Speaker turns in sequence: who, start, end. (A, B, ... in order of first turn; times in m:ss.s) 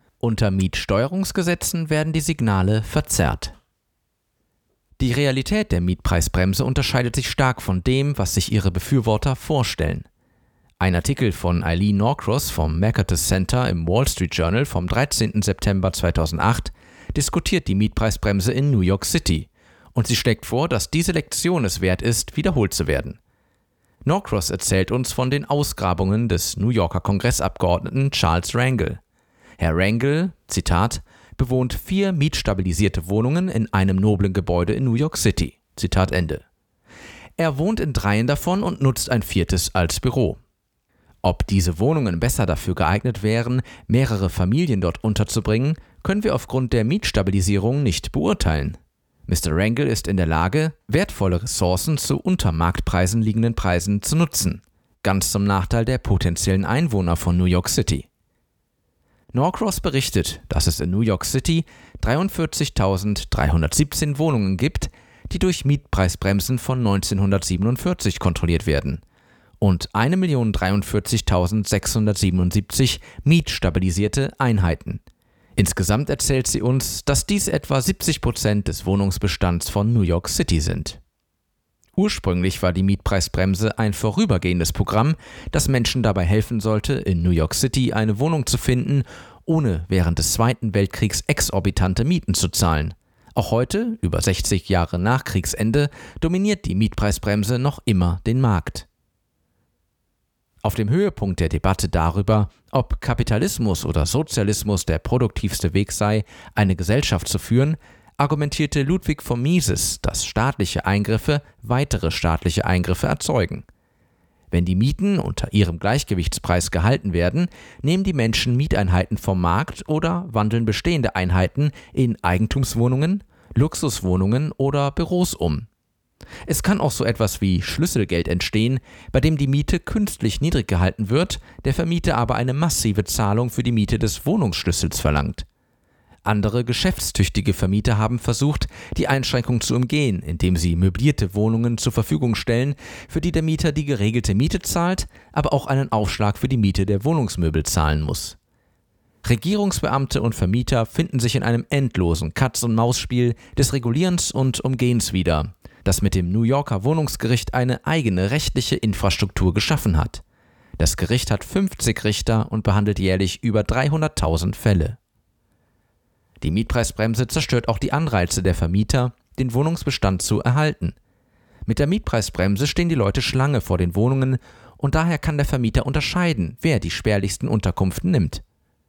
0:00.2-0:03.6 A
0:05.0-0:10.1 A
0:10.8-0:23.2 A
0:24.0-0:29.0 A
0:29.6-0:36.4 A
0:37.4-0:40.4 A
0:41.2-0:58.1 A
0:59.3-1:09.0 A
1:09.6-1:15.0 A
1:15.6-1:21.0 A
1:22.0-1:38.9 A
1:40.6-1:53.6 A
1:54.5-2:05.7 A
2:06.5-2:15.5 A
2:16.2-2:28.4 A
2:29.2-2:40.2 A
2:40.8-2:45.0 A
2:46.4-2:51.0 A
2:51.7-2:58.4 A